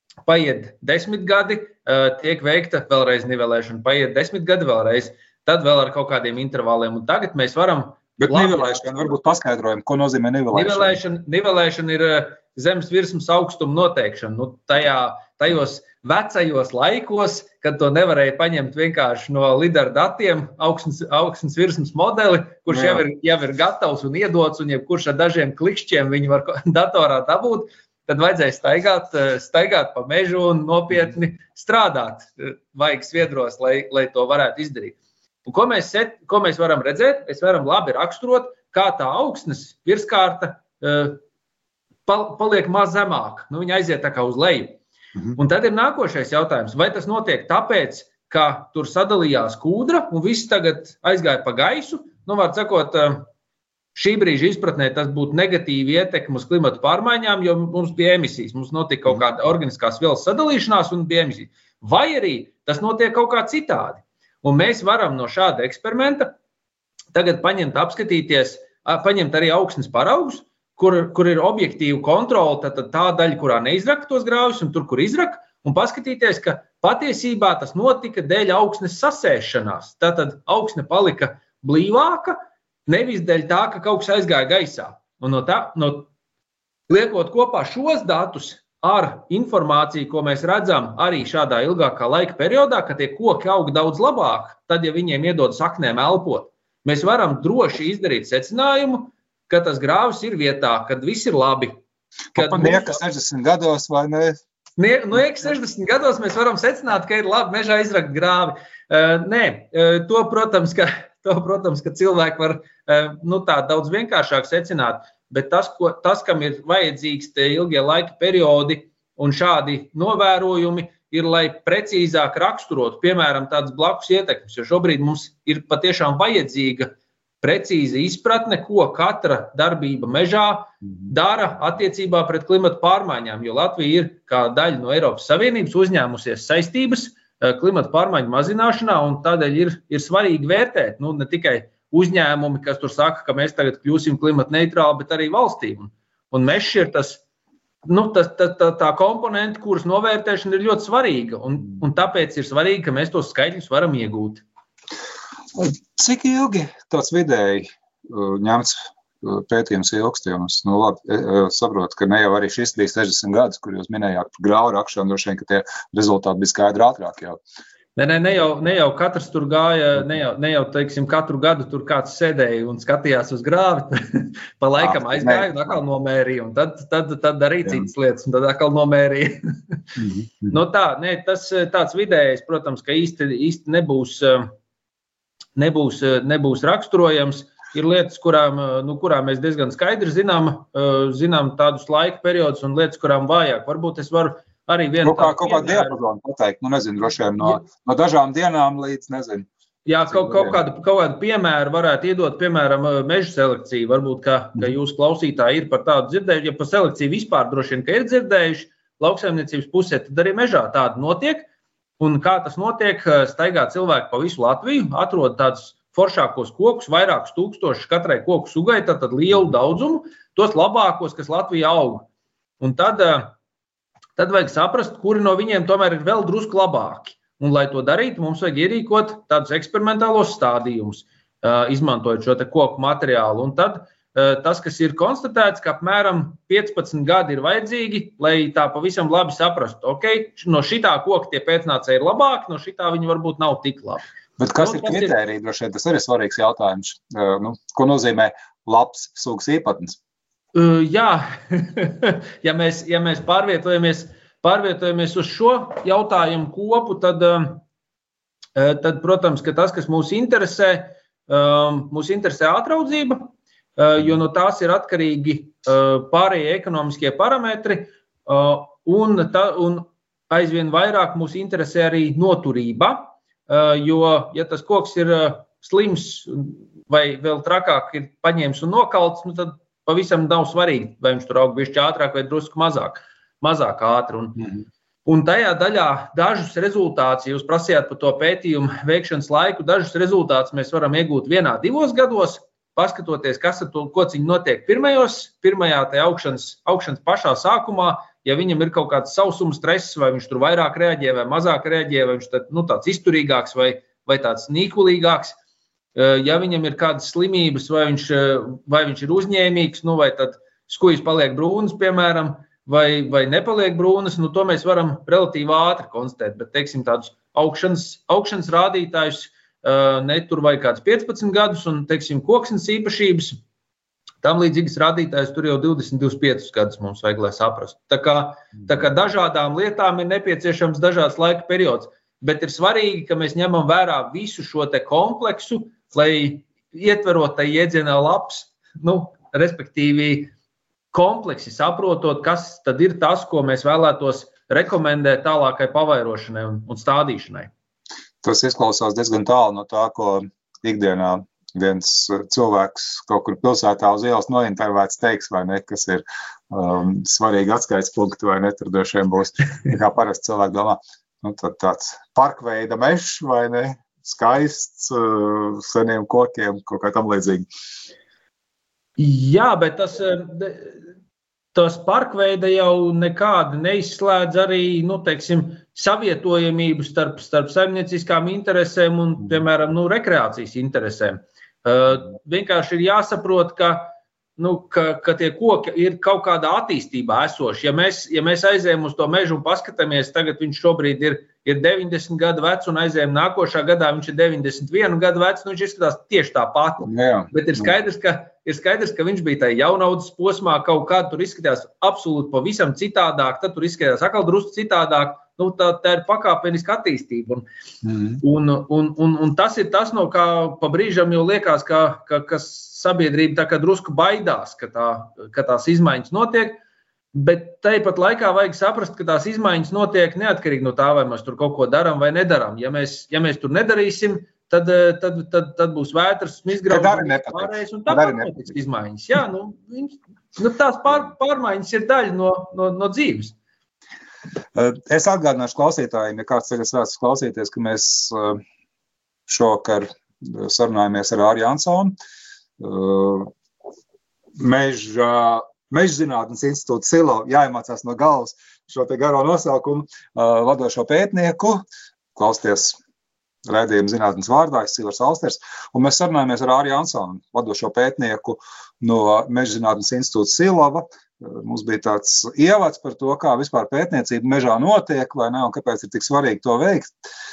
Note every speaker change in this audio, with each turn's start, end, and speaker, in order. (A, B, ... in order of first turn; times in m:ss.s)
0:00.3-0:08.9 A
0:08.2-0:11.0 B
0:10.5-0:41.2 A
0:22.7-0:23.0 B
0:42.1-0:44.8 A
0:45.4-0:53.3 A
0:54.0-1:06.3 A
1:07.1-1:26.1 A
1:26.9-1:41.8 A
1:42.4-1:43.0 A
1:42.4-1:44.4 B
1:44.8-2:27.2 A
2:27.9-2:34.4 A
2:35.6-2:47.4 B
2:48.0-2:59.8 A
2:54.8-2:55.5 B
3:00.0-3:00.6 B
3:00.5-3:04.5 A
3:05.6-3:16.0 A
3:15.0-3:19.5 B
3:19.9-3:31.5 A
3:20.1-3:20.6 B
3:32.0-3:42.1 A
3:42.6-3:43.4 A
3:44.2-4:05.2 A
4:04.4-4:10.0 B
4:10.6-4:17.6 A
4:18.6-4:44.4 A
4:45.1-5:05.4 A
5:06.0-5:23.4 A
5:24.2-5:40.3 A
5:40.9-5:47.5 A
5:48.2-6:07.5 B
6:09.0-6:10.8 A
6:11.6-6:47.4 A
6:36.8-6:37.7 B
6:47.8-6:48.2 B
6:48.2-6:56.6 A
6:57.1-7:13.4 A
7:06.7-7:08.4 B
7:14.6-7:18.4 B
7:19.3-7:22.0 B
7:22.6-7:23.3 B
7:24.4-7:31.6 B
7:32.2-7:32.8 B
7:33.5-7:46.9 B